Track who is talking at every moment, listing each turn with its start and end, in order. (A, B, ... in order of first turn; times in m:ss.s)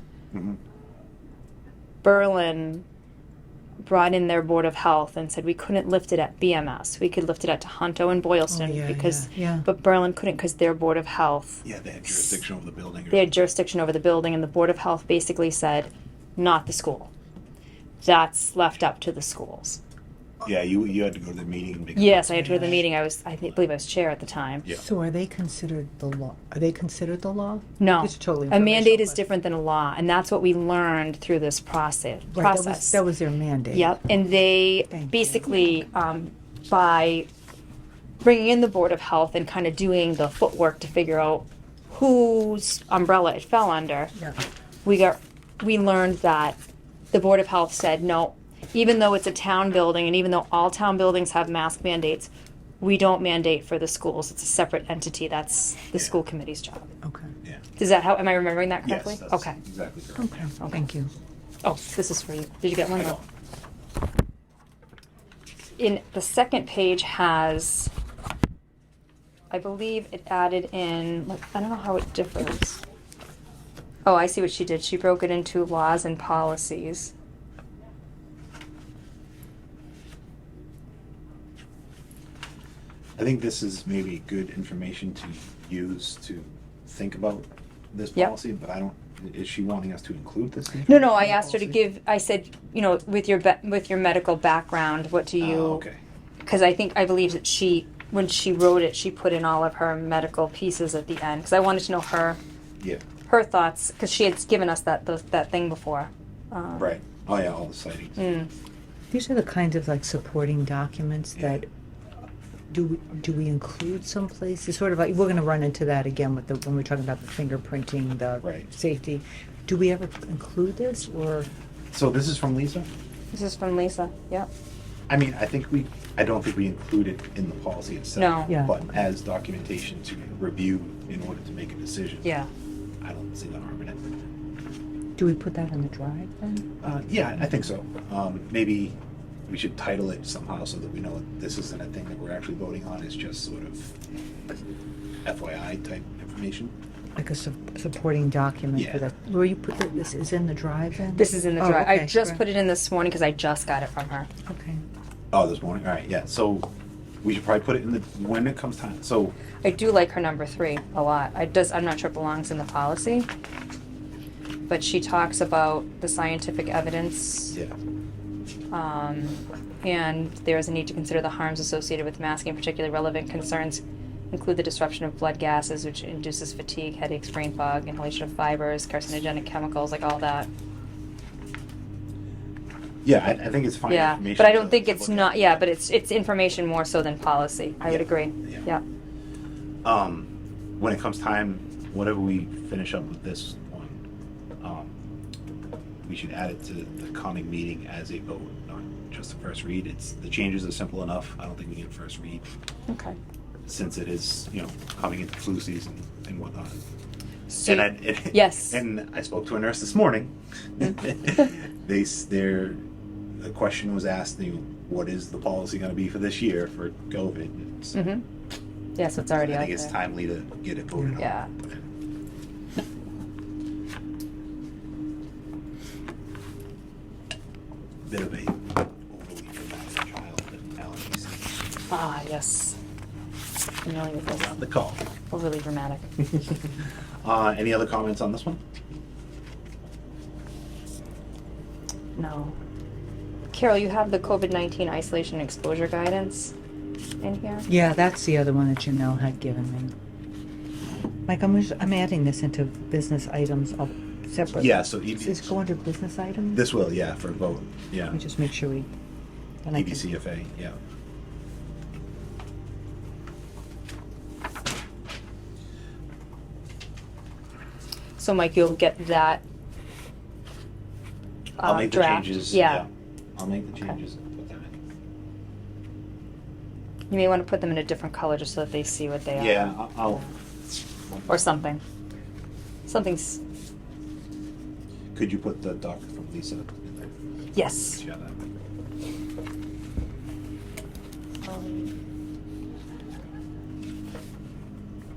0:00.3-0:00.6 A
0:02.0-0:02.8 B
0:03.8-0:12.4 B
0:08.5-0:09.6 C
0:11.6-0:13.4 A
0:13.1-0:17.1 B
0:18.0-0:19.8 B
0:20.4-0:22.6 A
0:22.0-0:24.7 B
0:22.4-0:22.8 C
0:24.7-0:29.2 C
0:27.8-0:33.0 B
0:32.3-0:33.9 C
0:33.7-0:37.3 B
0:34.9-0:35.5 C
0:38.2-0:44.1 B
0:44.8-0:46.6 B
0:47.1-0:56.9 B
0:57.0-0:57.3 C
0:57.8-0:59.6 B
0:58.8-1:00.5 A
1:00.2-1:01.1 C
1:01.6-1:03.2 B
1:05.8-1:07.9 B
1:09.5-1:12.8 B
1:14.0-1:17.1 B
1:23.2-1:31.5 A
1:30.9-1:35.8 B
1:31.2-1:31.7 C
1:35.4-1:36.0 A
1:36.4-1:42.4 B
1:43.3-1:46.9 B
1:46.8-1:48.2 A
1:48.2-1:48.5 B
1:49.1-1:51.7 C
1:51.3-1:51.6 A
1:52.7-2:01.5 C
1:58.4-1:58.7 A
2:01.9-2:02.9 A
2:03.3-2:04.5 B
2:05.1-2:12.3 A
2:08.2-2:08.5 B
2:08.5-2:08.8 C
2:12.2-2:12.5 B
2:13.0-2:14.0 A
2:15.2-2:17.7 C
2:16.8-2:19.0 A
2:19.5-2:23.9 A
2:25.2-2:26.7 A
2:27.2-2:32.4 C
2:28.7-2:29.0 A
2:31.1-2:34.3 B
2:34.4-2:34.8 C
2:35.3-2:36.7 A
2:37.2-2:39.4 A
2:39.6-2:43.3 B
2:44.7-2:47.6 B
2:48.7-3:00.5 B
3:03.0-3:05.6 A
3:03.9-3:08.8 B
3:07.8-3:08.7 A
3:09.8-3:14.0 A
3:14.6-3:14.9 A
3:16.0-3:22.4 A
3:22.9-3:23.2 B
3:23.7-3:26.8 A
3:27.5-3:28.8 B
3:27.6-3:32.8 A
3:33.4-3:38.0 A
3:37.9-3:38.2 B
3:39.0-3:39.9 B
3:39.3-3:41.8 A
3:41.2-3:41.5 B
3:48.0-3:51.5 A
3:51.9-3:52.8 B
3:53.8-3:54.6 B
3:54.3-3:55.0 A
3:55.3-3:56.0 B
3:56.3-3:56.6 A
3:57.2-3:58.6 A
4:02.2-4:02.6 B
4:03.5-4:06.5 B
4:07.2-4:07.7 B
4:07.7-4:09.9 C
4:11.2-4:16.6 C
4:14.5-4:15.5 A
4:16.5-4:18.2 A
4:18.1-4:18.9 C
4:19.6-4:20.0 C
4:19.7-4:20.8 A
4:28.2-4:29.4 B
4:31.6-4:34.7 A
4:31.6-4:32.8 B
4:37.1-4:40.3 B
4:39.3-4:40.2 A
4:41.3-4:41.8 B
4:42.9-4:43.4 B
4:45.1-4:47.1 A
4:47.5-4:48.0 B
4:47.9-4:48.4 A
4:51.4-4:51.9 B